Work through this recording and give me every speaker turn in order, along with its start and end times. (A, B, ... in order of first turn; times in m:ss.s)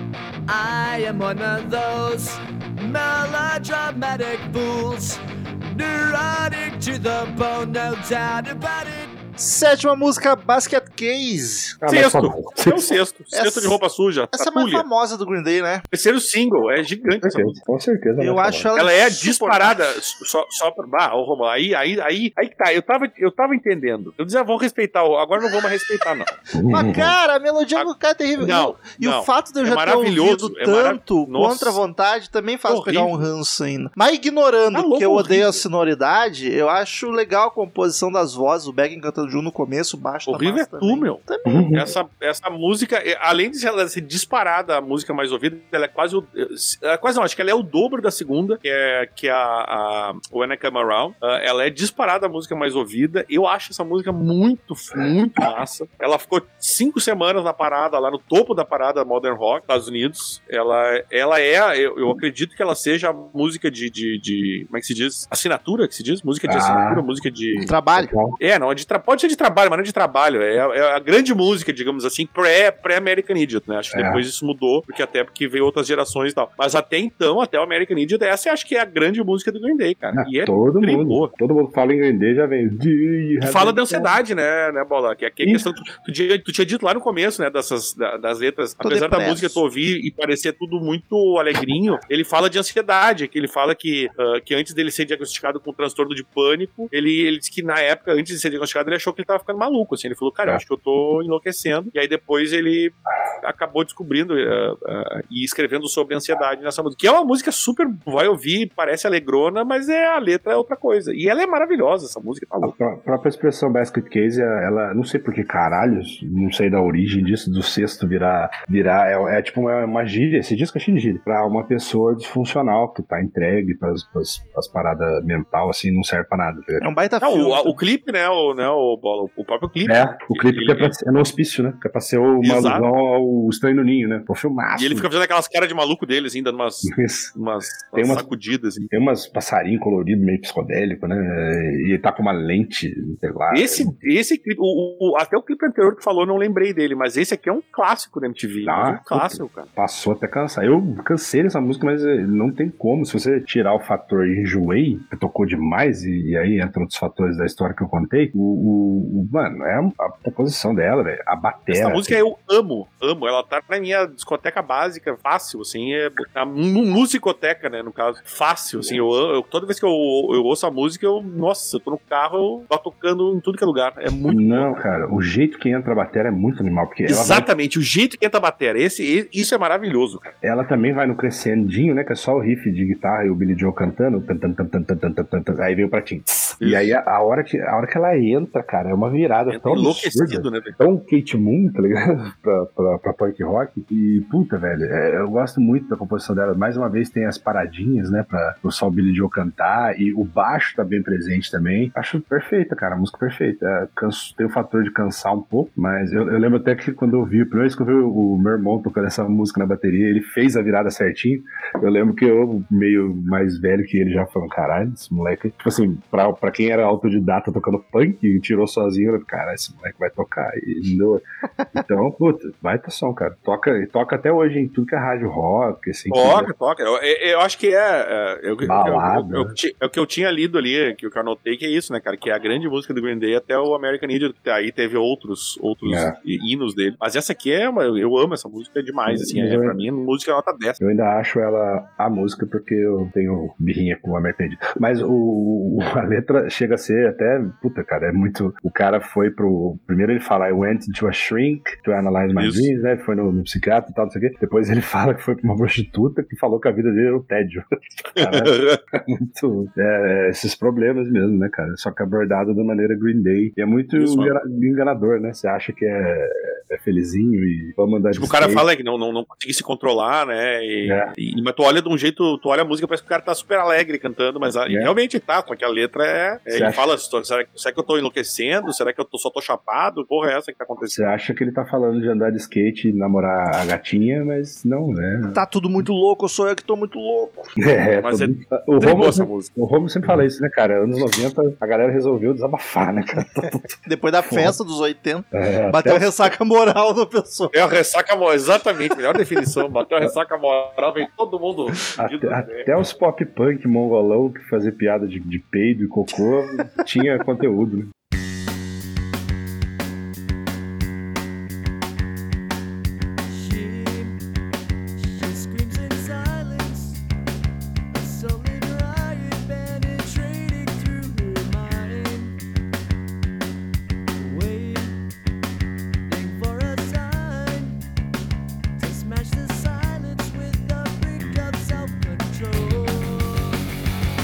0:00.5-0:09.1 A
0:09.4-0:11.8 B
0:11.8-0:13.0 C
0:11.9-0:14.8 D
0:13.3-0:13.8 B
0:14.3-0:15.8 B
0:15.9-0:17.6 D
0:17.2-0:18.7 C
0:18.2-0:19.8 B
0:18.8-0:26.3 D
0:26.5-0:27.2 C
0:26.7-0:41.7 B
0:27.7-0:31.8 D
0:32.7-0:33.3 D
0:34.7-0:35.6 D
0:40.3-1:07.7 D
0:41.4-0:41.9 C
1:06.4-1:07.0 C
1:07.6-1:08.1 B
1:08.0-1:08.4 C
1:08.4-1:21.3 D
1:13.9-1:14.2 C
1:20.1-1:24.1 C
1:23.4-1:52.7 D
1:25.4-1:25.7 C
1:28.8-1:29.6 B
1:52.6-2:06.9 C
2:06.8-2:07.8 B
2:07.2-2:10.9 D
2:09.8-2:15.1 C
2:12.4-2:12.8 D
2:14.8-2:18.9 D
2:16.8-2:17.3 C
2:17.9-2:18.2 C
2:18.9-2:23.9 C
2:23.5-2:29.7 D
2:28.6-2:42.2 C
2:41.7-2:54.8 D
2:54.3-2:57.5 C
2:57.1-3:00.3 D
3:00.4-3:41.2 C
3:06.6-3:07.0 D
3:09.5-3:10.8 D
3:41.7-3:46.5 C
3:46.1-4:00.8 D
3:48.6-3:49.6 C
3:55.8-3:56.1 C
3:59.1-3:59.8 C
4:00.8-4:28.6 C
4:12.4-4:12.7 D
4:18.2-4:18.8 D
4:24.0-4:24.3 D
4:28.1-4:41.1 D
4:30.8-4:31.1 C
4:34.7-4:34.9 C
4:36.5-4:36.9 C
4:40.8-4:45.4 C
4:45.3-4:47.5 B
4:47.6-4:54.6 C
4:48.0-4:49.5 D
4:53.8-4:57.5 B
4:55.3-4:56.1 C
4:57.5-5:02.7 D
5:02.0-5:07.9 C
5:13.3-5:14.2 A
5:15.0-5:17.0 A
5:17.9-5:22.3 A
5:24.2-5:25.0 A
5:26.1-5:27.8 A
5:28.8-5:33.6 A